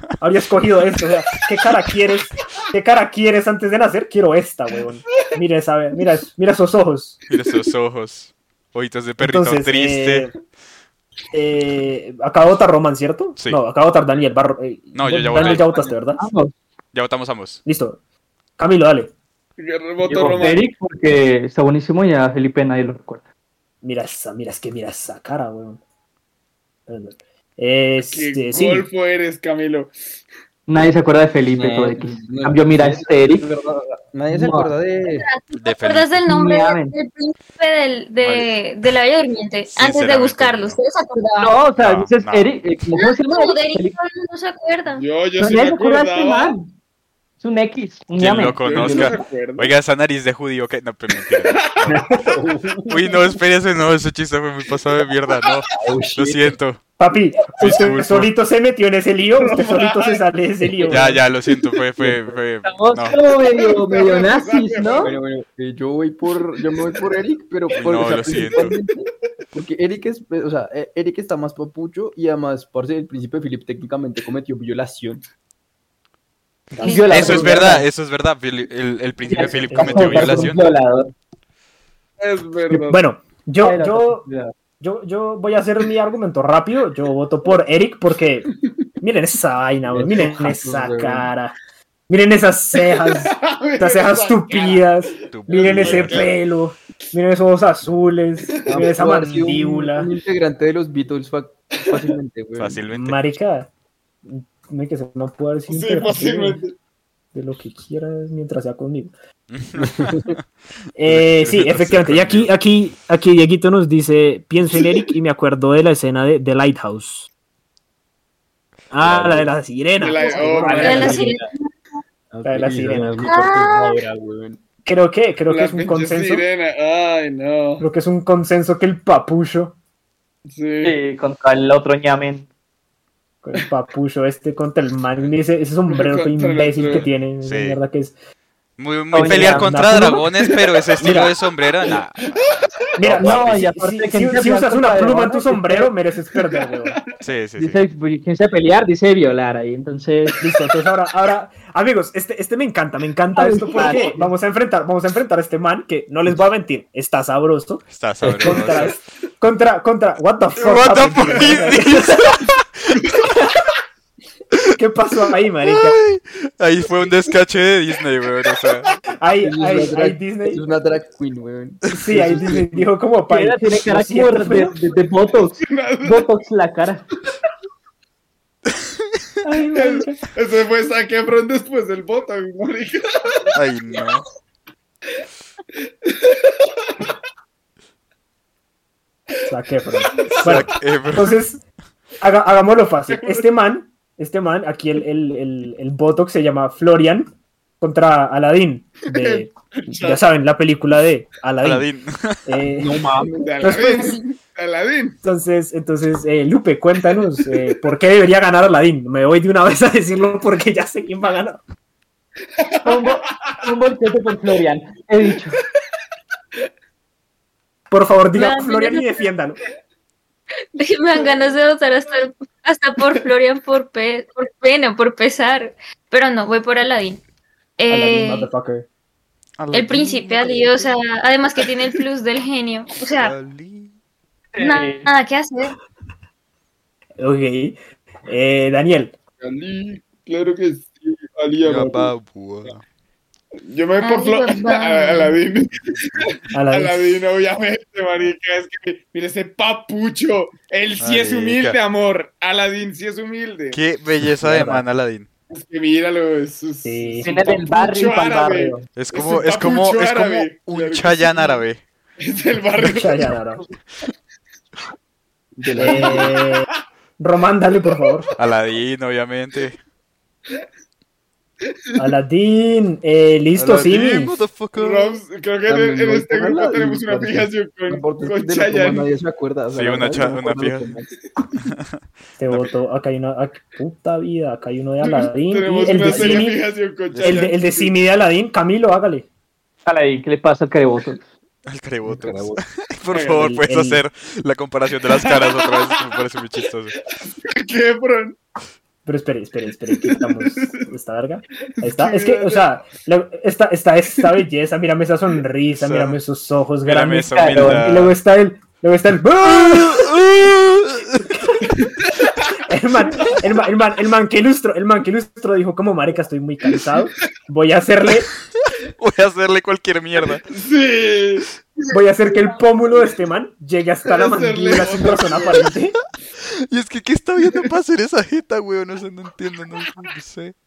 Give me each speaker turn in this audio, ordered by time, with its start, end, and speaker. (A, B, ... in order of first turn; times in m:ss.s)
0:00.2-0:07.2 A
0:07.3-0:10.3 B
0:09.2-0:10.3 A
0:11.3-0:16.2 A
0:14.9-0:15.7 B
0:15.4-0:16.5 C
0:16.9-0:17.6 B
0:17.6-0:18.0 A
0:18.6-0:19.1 A
0:19.6-0:20.7 D
0:20.0-0:23.2 C
0:23.8-0:25.8 A
0:26.9-0:28.9 A
0:28.0-0:29.9 D
0:30.7-0:33.5 C
0:31.5-0:35.3 E
0:34.3-0:34.7 C
0:35.1-0:41.6 F
0:35.6-0:36.2 B
0:36.2-0:36.9 C
0:38.2-0:38.5 B
0:39.7-0:40.8 B
0:41.4-0:44.0 C
0:41.8-0:42.5 B
0:42.9-0:45.0 F
0:44.9-0:46.6 D
0:45.4-0:46.7 C
0:47.4-0:49.2 C
0:48.2-0:52.2 B
0:48.6-0:49.7 D
0:51.3-0:51.9 D
0:51.9-0:53.1 E
0:52.9-0:56.8 B
0:55.7-0:56.6 E
0:57.0-1:01.2 A
0:57.6-0:58.3 B
0:59.4-1:00.2 D
1:00.6-1:01.0 C
1:00.9-1:03.2 B
1:02.6-1:05.1 C
1:03.5-1:05.1 D
1:05.0-1:15.2 E
1:07.7-1:08.7 B
1:16.8-1:17.8 A
1:16.8-1:17.8 C
1:16.8-1:17.2 F
1:17.1-1:20.6 B
1:19.3-1:21.1 C
1:19.7-1:20.6 A
1:22.2-1:23.0 D
1:22.7-1:24.2 A
1:23.6-1:24.5 C
1:24.8-1:31.6 A
1:29.9-1:31.3 E
1:32.1-1:40.1 A
1:32.9-1:34.9 D
1:35.3-1:36.3 B
1:35.5-1:36.3 D
1:38.7-1:42.8 E
1:42.6-1:43.2 B
1:42.9-1:43.7 A
1:44.2-1:46.6 A
1:45.7-1:46.7 D
1:47.3-1:49.1 A
1:49.5-1:50.4 B
1:49.8-1:50.3 E
1:51.0-1:57.3 A
1:51.0-1:52.5 B
1:58.9-2:01.2 A
1:59.0-1:59.5 E
2:00.0-2:01.2 D
2:00.3-2:01.5 E
2:00.4-2:01.7 F
2:02.3-2:04.6 E
2:02.4-2:03.2 A
2:03.2-2:04.0 F
2:04.8-2:06.4 A
2:05.5-2:07.8 D
2:07.8-2:09.7 A
2:10.5-2:11.0 D
2:10.8-2:12.5 C
2:13.4-2:18.1 A
2:15.9-2:17.1 D
2:17.4-2:17.8 B
2:18.8-2:22.5 B
2:19.1-2:19.8 C
2:19.2-2:20.2 A
2:21.0-2:21.3 A
2:21.9-2:22.7 D
2:23.0-2:27.0 A
2:23.0-2:23.6 B
2:23.1-2:25.9 C
2:26.4-2:27.1 D
2:27.2-2:27.8 B
2:27.6-2:30.4 C
2:30.4-2:42.5 A
2:33.3-2:34.2 C
2:33.8-2:34.1 D
2:37.9-2:39.0 B
2:40.6-2:43.2 B
2:41.2-2:41.7 D
2:42.9-2:43.2 D
2:43.2-2:43.6 A
2:44.7-2:46.0 A
2:45.7-2:48.9 B
2:49.2-2:50.6 A
2:49.4-2:52.9 E
2:51.9-2:54.7 A
2:53.3-2:57.1 C
2:55.6-2:56.3 D
2:59.4-3:00.2 A
2:59.7-3:03.6 D
3:03.5-3:04.2 B
3:06.0-3:07.2 D
3:09.5-3:11.6 A
3:10.1-3:10.5 D
3:10.3-3:11.4 B
3:12.2-3:21.9 A
3:13.1-3:13.4 D
3:19.1-3:20.2 D
3:21.6-3:22.4 B
3:22.4-3:23.0 A
3:22.6-3:23.6 E
3:23.4-3:25.2 D
3:23.6-3:24.2 A
3:25.2-3:31.6 A
3:32.6-3:33.6 D
3:32.8-3:35.6 C
3:37.9-3:39.6 A
3:38.3-3:39.2 F
3:40.8-3:47.2 F
3:47.8-3:48.5 F
3:47.9-3:48.9 A
3:49.6-3:50.9 B
3:49.7-3:53.3 F
3:53.1-3:53.9 B
3:54.5-3:55.1 C
3:54.6-3:55.7 F
3:57.2-3:59.2 A
3:59.4-4:02.1 D
4:01.6-4:02.8 B
4:03.7-4:13.8 D
4:04.0-4:05.4 F
4:06.5-4:07.2 A
4:11.0-4:11.8 B
4:13.7-4:15.3 B
4:14.4-4:14.8 A
4:15.5-4:21.6 D
4:16.8-4:17.3 A
4:17.2-4:18.8 C
4:18.9-4:21.8 B
4:22.2-4:23.3 D
4:22.8-4:23.6 A
4:25.6-4:26.4 E
4:25.8-4:26.7 A
4:27.2-4:28.3 A
4:28.4-4:29.8 B
4:31.7-4:32.1 D
4:32.0-4:34.4 A
4:33.5-4:35.2 B
4:34.7-4:39.1 D
4:35.7-4:41.1 E
4:39.7-4:40.9 B
4:41.6-4:41.9 B
4:42.4-4:46.6 A
4:45.0-4:47.9 D
4:46.1-4:46.5 E
4:47.1-4:47.5 B
4:47.2-4:49.2 A
4:49.8-4:51.2 C
4:51.7-4:57.0 B
4:52.0-4:52.6 E
4:53.1-4:53.4 D
4:53.3-4:54.0 A
4:55.1-4:55.9 D
4:57.1-4:58.4 D
4:59.0-5:10.1 A
4:59.9-5:00.9 D
5:01.8-5:02.7 D
5:05.8-5:06.2 B
5:06.8-5:08.2 B
5:07.3-5:07.8 C
5:09.4-5:11.6 B
5:11.3-5:11.6 A
5:11.7-5:12.5 D
5:12.6-5:18.3 A
5:13.2-5:13.4 D
5:18.6-5:20.4 B
5:20.5-5:22.0 D
5:21.9-5:26.0 A
5:24.0-5:25.7 D
5:26.7-5:30.6 B